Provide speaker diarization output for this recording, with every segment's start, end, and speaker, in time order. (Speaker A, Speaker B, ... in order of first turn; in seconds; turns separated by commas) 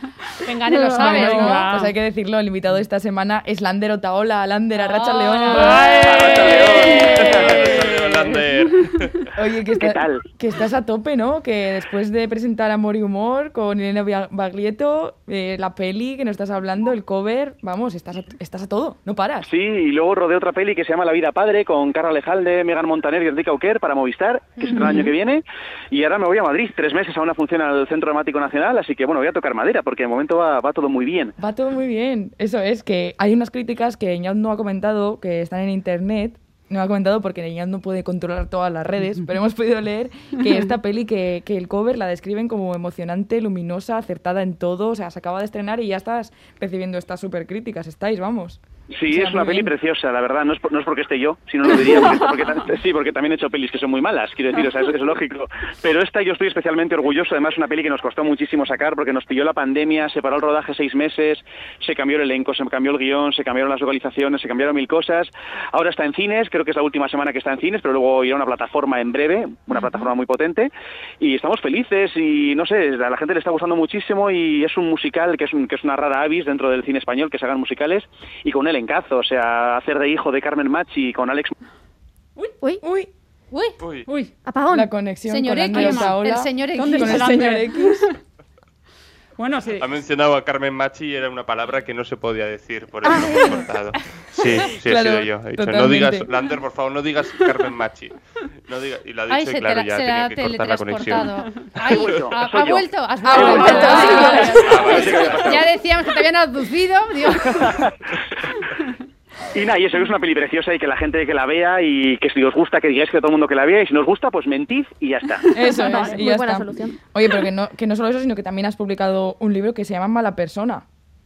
Speaker A: 0.4-1.8, Speaker B: 0.8-8.3, Speaker C: 1.1-1.9, Speaker A: 4.7-6.2, Speaker C: 5.7-6.5, Speaker D: 5.9-9.3, Speaker E: 6.2-7.8, Speaker B: 9.3-19.5, Speaker E: 9.8-10.2, Speaker E: 19.4-31.3, Speaker B: 31.4-49.7, Speaker E: 48.9-81.5, Speaker B: 82.8-83.1, Speaker A: 83.5-83.8, Speaker D: 83.8-84.1, Speaker C: 84.0-84.3, Speaker F: 84.4-84.9, Speaker B: 84.7-88.1, Speaker A: 85.2-87.3, Speaker C: 85.7-86.2, Speaker C: 86.7-88.1, Speaker C: 89.4-89.9, Speaker D: 89.8-101.3, Speaker F: 93.0-93.6, Speaker B: 94.8-96.3, Speaker A: 99.3-107.8, Speaker E: 101.8-103.8, Speaker B: 103.2-105.2, Speaker C: 103.8-104.5, Speaker F: 103.8-104.5, Speaker E: 104.4-105.7, Speaker D: 104.5-105.6, Speaker E: 107.5-107.9, Speaker E: 109.5-115.4, Speaker B: 115.5-120.8, Speaker F: 115.6-117.0